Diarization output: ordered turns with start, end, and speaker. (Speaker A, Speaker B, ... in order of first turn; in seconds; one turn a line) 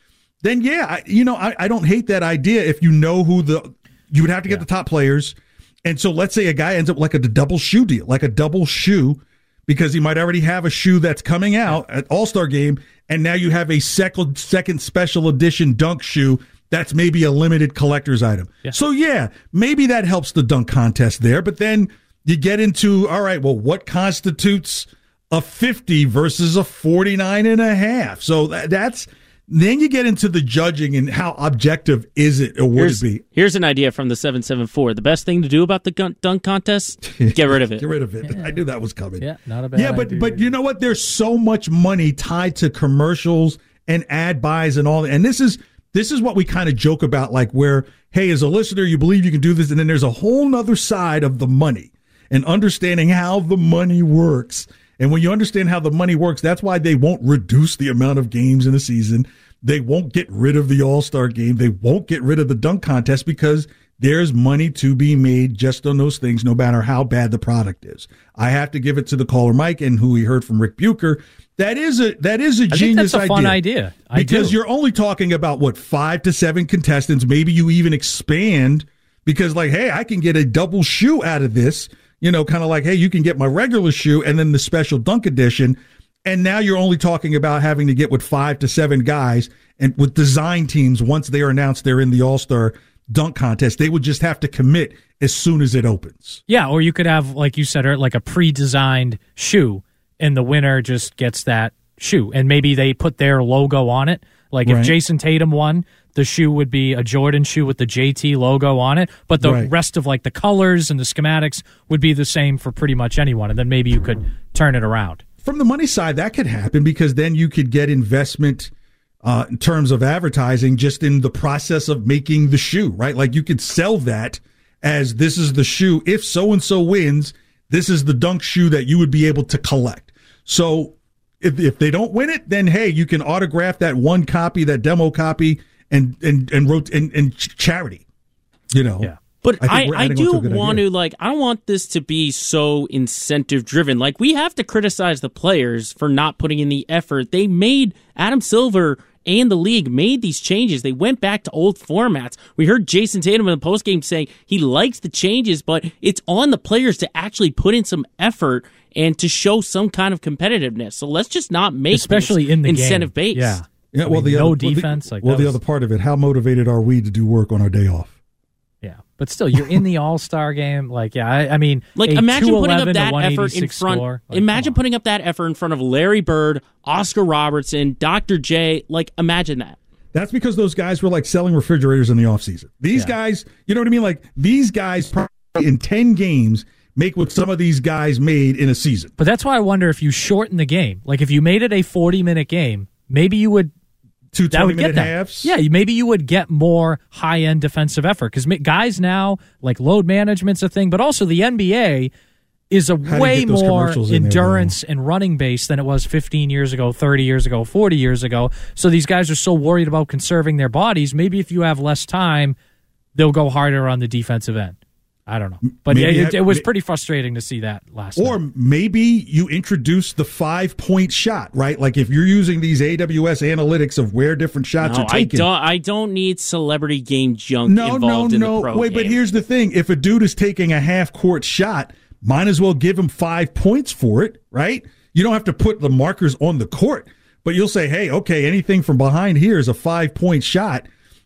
Speaker A: 0.4-33.2
Speaker B: 32.7-37.8
Speaker A: 37.0-96.4
Speaker C: 38.2-38.6
Speaker C: 39.2-40.5
Speaker C: 72.7-74.6
Speaker C: 96.5-115.2
Speaker A: 104.7-105.0
Speaker A: 109.4-109.7
Speaker A: 115.4-118.7
Speaker A: 119.2-138.0
Speaker A: 138.7-140.8
Speaker B: 139.4-163.6
Speaker C: 161.9-165.6
Speaker A: 163.9-168.2
Speaker C: 168.8-174.8
Speaker B: 172.0-179.8
Speaker A: 180.1-189.1
Speaker C: 189.2-193.7
Speaker A: 194.3-195.5
Speaker C: 194.5-202.1
Speaker C: 202.7-212.6
Speaker A: 203.0-204.8
Speaker C: 213.2-214.8
Speaker C: 215.3-218.4
Speaker A: 215.6-216.7
Speaker A: 218.2-225.5
Speaker B: 224.8-229.2
Speaker A: 227.7-240.9